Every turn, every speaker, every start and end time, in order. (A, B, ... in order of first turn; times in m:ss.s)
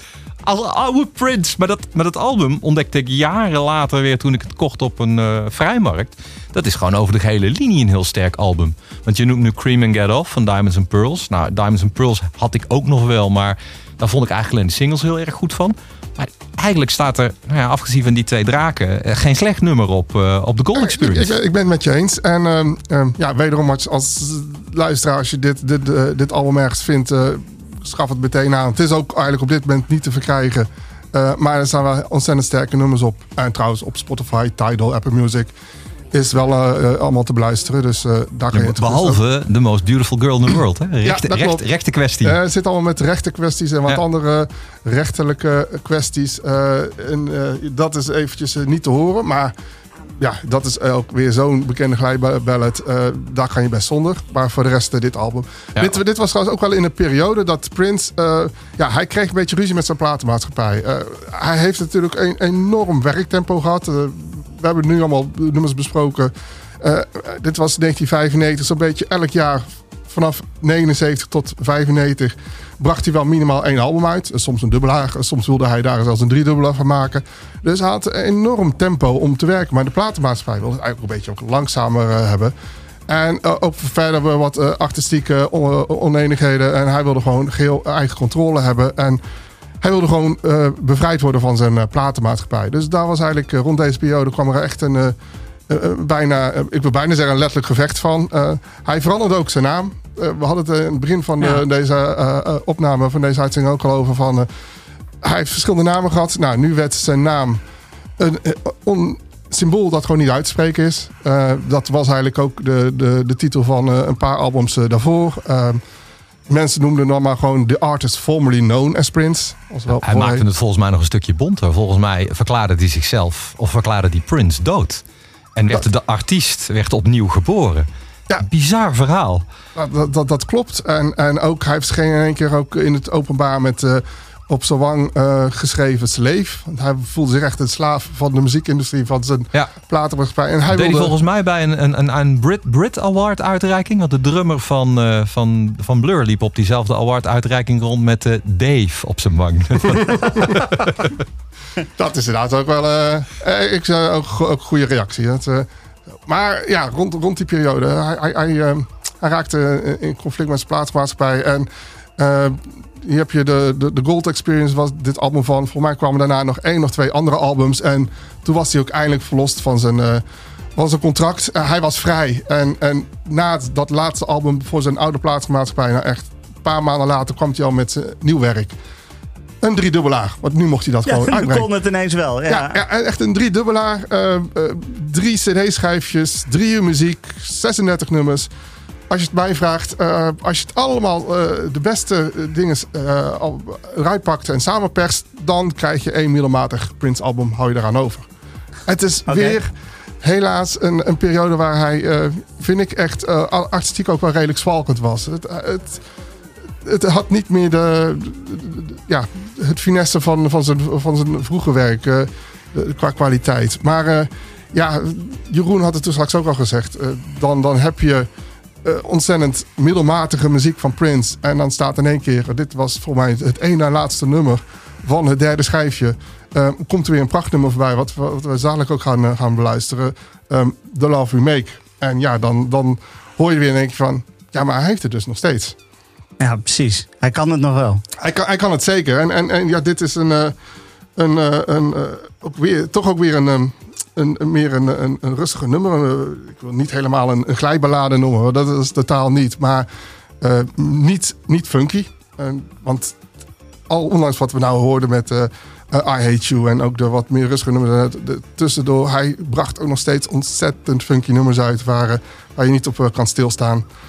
0:00.4-0:21.3 A
0:20.8-0:35.5 B
0:36.1-0:39.2 B
0:38.5-0:42.4 A
0:41.0-0:41.6 B
0:42.2-0:49.5 B
0:50.2-1:22.5 B
1:23.1-1:29.2 B
1:29.8-1:35.2 B
1:35.7-1:44.5 B
1:45.2-1:47.6 B
1:48.2-1:55.8 B
1:56.5-2:00.4 B
2:00.0-2:05.0 A
2:05.6-2:07.9 A
2:08.4-2:09.4 A
2:09.8-2:21.1 B
2:20.7-2:30.8 A
2:30.3-2:30.6 B
2:32.0-2:35.7 B
2:36.2-2:50.2 B
2:50.8-2:58.8 B
2:59.6-3:01.7 B
3:01.0-3:02.8 C
3:02.5-3:08.5 B
3:09.1-3:18.3 B
3:18.9-3:19.7 B
3:19.3-3:19.6 C
3:20.2-3:26.0 B
3:26.8-3:38.3 B
3:38.8-3:55.8 B
3:56.4-3:58.0 C
3:58.2-4:00.6 B
4:01.2-4:09.9 B
4:10.4-4:13.2 B
4:13.9-4:23.8 B